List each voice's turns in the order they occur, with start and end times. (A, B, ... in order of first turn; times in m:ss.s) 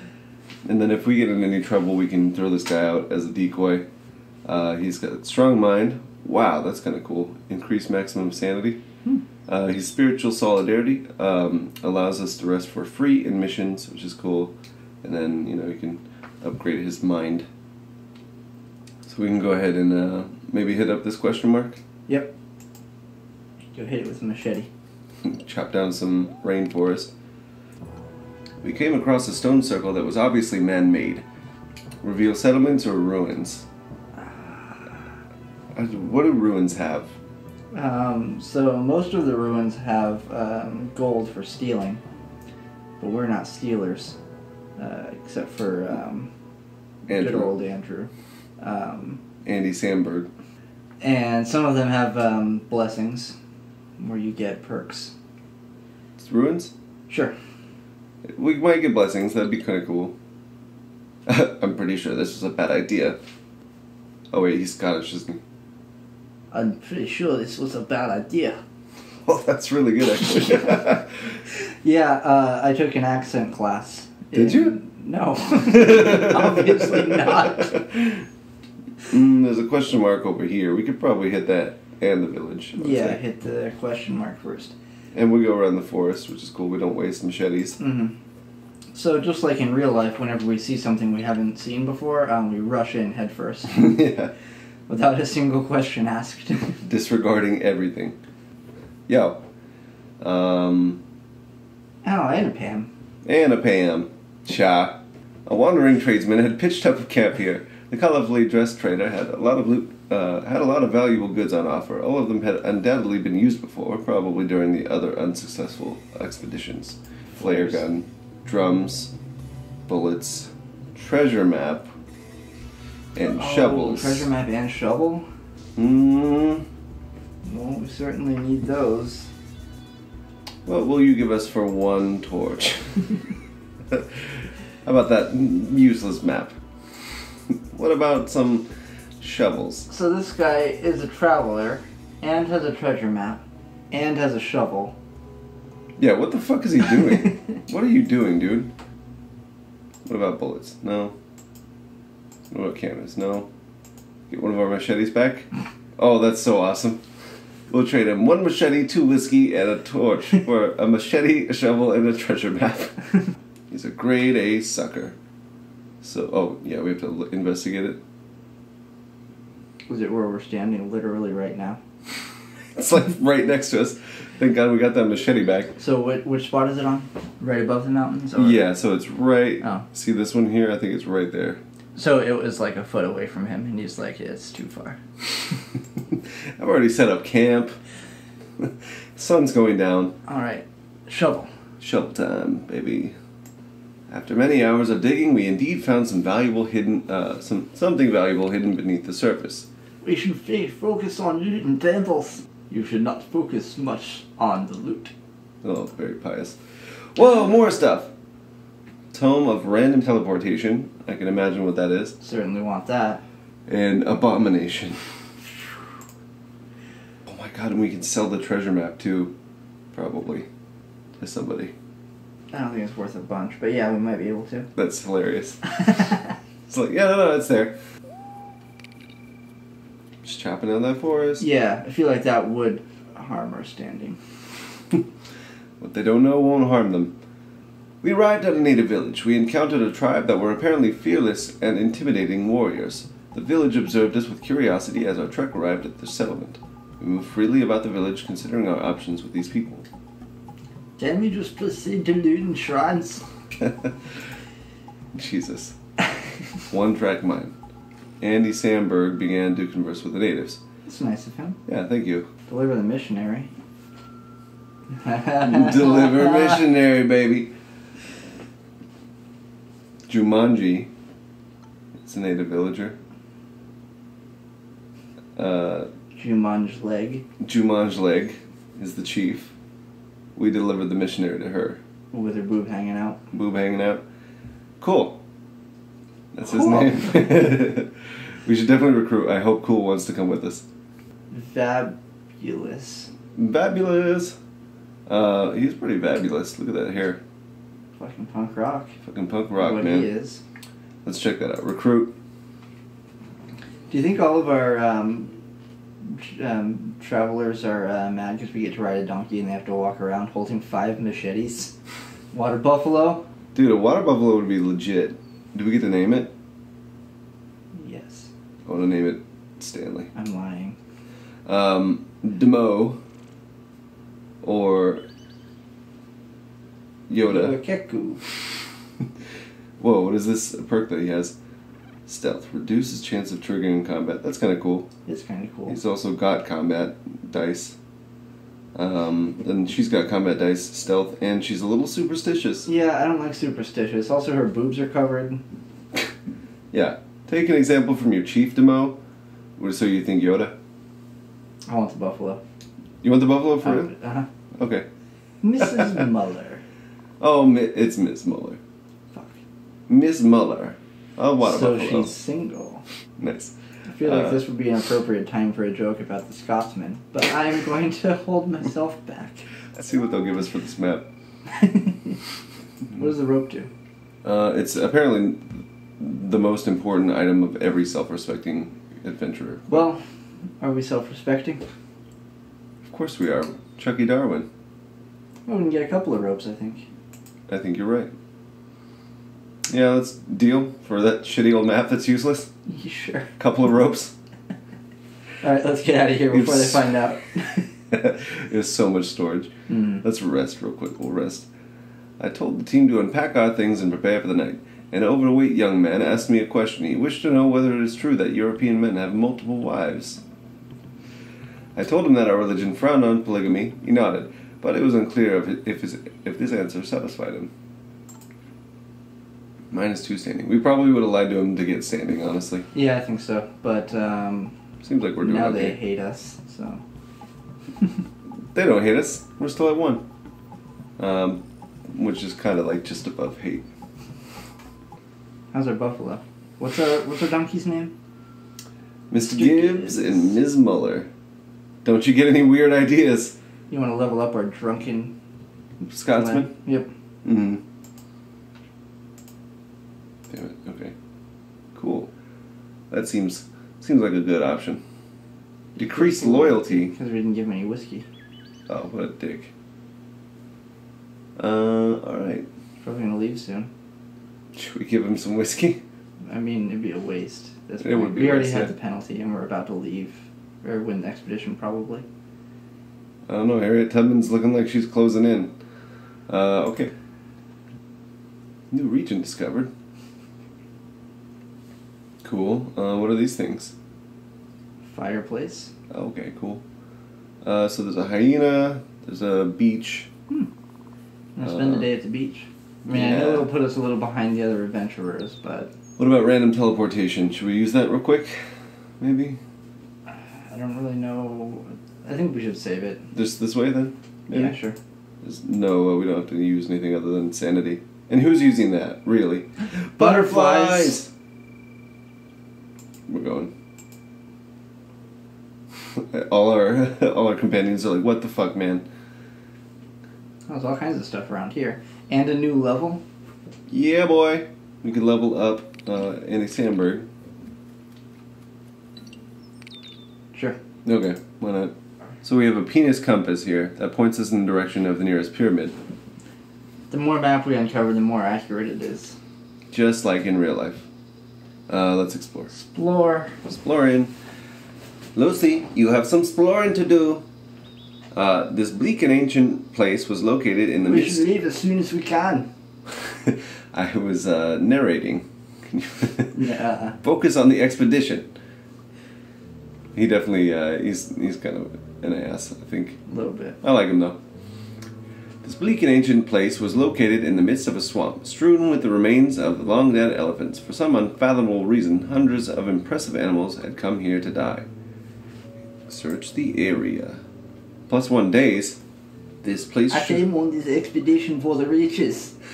0:00.6-0:03.8 A
0:04.5-0:08.8 A
0:09.5-0:17.5 A
0:19.1-0:21.8 A
0:23.7-0:24.7 B
0:25.2-0:27.1 A
0:28.6-0:31.2 A
0:32.0-0:33.7 A
0:34.2-0:35.0 B
0:35.8-0:37.1 A
0:37.7-0:42.0 B
0:43.0-0:44.2 B
0:44.8-0:46.3 B
0:47.1-0:47.5 A
0:47.1-0:49.2 B
0:49.5-0:50.3 A
0:51.0-0:53.3 B
0:54.0-0:55.1 B
0:56.2-0:56.7 A
0:57.1-0:57.4 B
0:58.3-1:00.1 A
1:01.3-1:03.2 A
1:04.3-1:05.4 A
1:06.5-1:08.6 B
1:09.2-1:11.1 A
1:10.2-1:10.9 B
1:11.5-1:17.8 B
1:14.3-1:14.8 A
1:15.5-1:18.2 A
1:19.1-1:23.2 A
1:22.7-1:24.8 B
1:25.1-1:27.8 A
1:27.8-1:28.1 B
1:28.9-1:33.9 B
1:33.7-1:34.3 A
1:34.9-1:36.8 B
1:36.8-1:38.2 A
1:39.1-1:39.4 A
1:40.2-1:41.0 A
1:42.0-1:42.9 B
1:43.2-1:59.1 A
1:57.4-1:57.8 B
1:59.9-2:01.9 A
2:03.1-2:04.3 A
2:03.4-2:05.2 B
2:05.8-2:06.7 A
2:07.4-2:09.3 B
2:10.7-2:13.1 A
2:13.9-2:16.6 A
2:17.7-2:18.7 A
2:19.2-2:19.9 A
2:19.9-2:25.0 B
2:26.0-2:28.7 A
2:30.0-2:31.2 A
2:32.5-2:33.5 A
2:34.3-2:37.0 A
2:37.7-2:43.1 A
2:43.7-2:45.1 A
2:46.0-2:48.0 A
2:49.9-2:51.8 B
2:52.8-2:55.8 A
2:55.8-2:58.6 B
2:58.4-3:01.6 A
3:02.0-3:05.0 B
3:06.1-3:07.8 A
3:08.6-3:10.1 A
3:10.2-3:11.5 B
3:11.8-3:13.1 A
3:14.1-3:19.7 A
3:20.0-3:25.1 B
3:25.6-3:26.6 A
3:27.1-3:28.1 A
3:29.1-3:32.2 A
3:32.2-3:33.2 B
3:33.7-3:35.0 A
3:37.2-3:39.3 A
3:39.9-3:40.5 A
3:41.2-3:41.7 A
3:42.5-3:44.7 B
3:44.8-3:46.0 A
3:46.7-3:47.8 A
3:50.2-3:51.4 A
3:51.4-3:54.2 B
3:55.8-3:57.2 A
3:58.0-4:09.9 A
4:11.0-4:13.2 B
4:13.6-4:13.9 A
4:15.1-4:15.8 A
4:16.7-4:17.5 A
4:18.2-4:20.6 A
4:20.9-4:21.6 B
4:21.7-4:22.3 A
4:22.5-4:23.5 B
4:24.9-4:26.6 B
4:25.4-4:27.5 A
4:30.1-4:30.9 A
4:32.0-4:33.0 A
4:35.4-4:35.9 A
4:36.1-4:37.2 B
4:37.4-4:39.5 A
4:40.4-4:41.8 A
4:42.1-4:43.2 B
4:43.3-4:44.0 A
4:44.8-4:45.2 A
4:46.3-4:47.9 A
4:46.5-4:47.5 B
4:48.4-4:50.6 A
4:51.3-4:53.1 B
4:53.4-4:54.4 A
4:55.1-4:57.2 A
4:58.0-4:58.9 B
4:59.0-5:00.1 A
4:59.6-5:00.4 B
5:01.0-5:02.1 A
5:03.9-5:05.3 B
5:06.0-5:11.7 B
5:12.3-5:13.2 B
5:13.5-5:16.3 A
5:17.7-5:18.3 B
5:18.7-5:20.1 A
5:20.1-5:20.8 B
5:21.5-5:23.0 A
5:24.4-5:25.0 A
5:27.1-5:27.6 A
5:27.3-5:28.2 B
5:29.8-5:31.4 A
5:32.1-5:34.9 A
5:35.1-5:35.8 B
5:35.7-5:37.8 A
5:38.8-5:42.7 A
5:42.6-5:45.4 B
5:46.7-5:49.0 A
5:49.6-5:50.5 A
5:51.7-5:52.4 B
5:53.0-5:53.9 A
5:53.6-5:54.3 B
5:54.6-5:54.9 A
5:55.4-5:56.6 B
5:55.6-5:56.0 A
5:57.2-5:58.6 A
5:59.1-5:59.4 B
5:59.9-6:02.2 A
6:01.4-6:02.8 B
6:03.2-6:04.4 A
6:03.9-6:09.5 B
6:09.8-6:11.1 A
6:11.5-6:12.2 B
6:12.9-6:13.7 B
6:14.2-6:19.9 A
6:19.7-6:20.0 B
6:20.6-6:21.6 B
6:22.8-6:24.5 A
6:25.5-6:26.8 B
6:27.5-6:28.1 A
6:29.7-6:32.5 A
6:32.7-6:33.3 B
6:33.4-6:34.1 A
6:35.4-6:37.7 B
6:36.3-6:36.9 A
6:37.9-6:39.5 A
6:39.7-6:40.0 B
6:40.0-6:41.5 A
6:42.2-6:50.2 A
6:51.8-6:57.5 A
6:59.7-7:02.7 A
7:02.7-7:04.5 B
7:04.8-7:05.8 A
7:05.2-7:06.8 B
7:08.5-7:10.0 A
7:11.0-7:13.7 A
7:15.5-7:17.9 B
7:19.1-7:21.1 A
7:19.2-7:20.4 B
7:21.8-7:23.4 A
7:23.7-7:25.1 B
7:25.8-7:26.5 A
7:26.1-7:26.9 B
7:27.2-7:27.6 A
7:30.3-7:30.9 A
7:31.8-7:32.1 A
7:32.9-7:34.8 A
7:35.8-7:38.1 B
7:35.8-7:36.9 A
7:38.7-7:39.5 A
7:41.4-7:42.5 A
7:42.8-7:43.7 B
7:44.5-7:45.8 A
7:46.2-7:52.0 B
7:47.8-7:48.7 A
7:53.3-7:55.5 A
7:56.3-7:56.9 A
7:58.7-7:59.7 A
8:02.2-8:03.7 A
8:04.9-8:05.7 B
8:05.9-8:06.6 A
8:07.4-8:10.1 A
8:11.4-8:15.7 B
8:11.4-8:11.9 A
8:12.8-8:13.5 A
8:16.0-8:18.4 A
8:19.0-8:19.4 A
8:20.1-8:23.1 B
8:23.1-8:24.6 A
8:24.3-8:24.8 B
8:25.2-8:31.1 A
8:30.0-8:31.0 B
8:33.1-8:33.5 A
8:36.0-8:38.9 A
8:40.5-8:43.0 B
8:43.7-8:47.1 A
8:50.3-8:50.6 B
8:50.8-8:51.7 A
8:52.2-8:55.8 A
8:56.9-8:59.2 B
8:59.7-9:00.9 A
9:01.7-9:02.5 A
9:02.5-9:03.4 B
9:03.5-9:04.1 A
9:05.1-9:07.2 A
9:08.1-9:11.2 A
9:10.8-9:12.5 B
9:13.1-9:16.4 A
9:16.3-9:17.0 B
9:17.0-9:18.3 A
9:20.0-9:23.0 A
9:23.1-9:23.6 B
9:23.6-9:24.2 A
9:25.4-9:34.6 A
9:35.9-9:37.2 A
9:37.9-9:38.8 A
9:39.4-9:40.2 A
9:39.9-9:42.3 B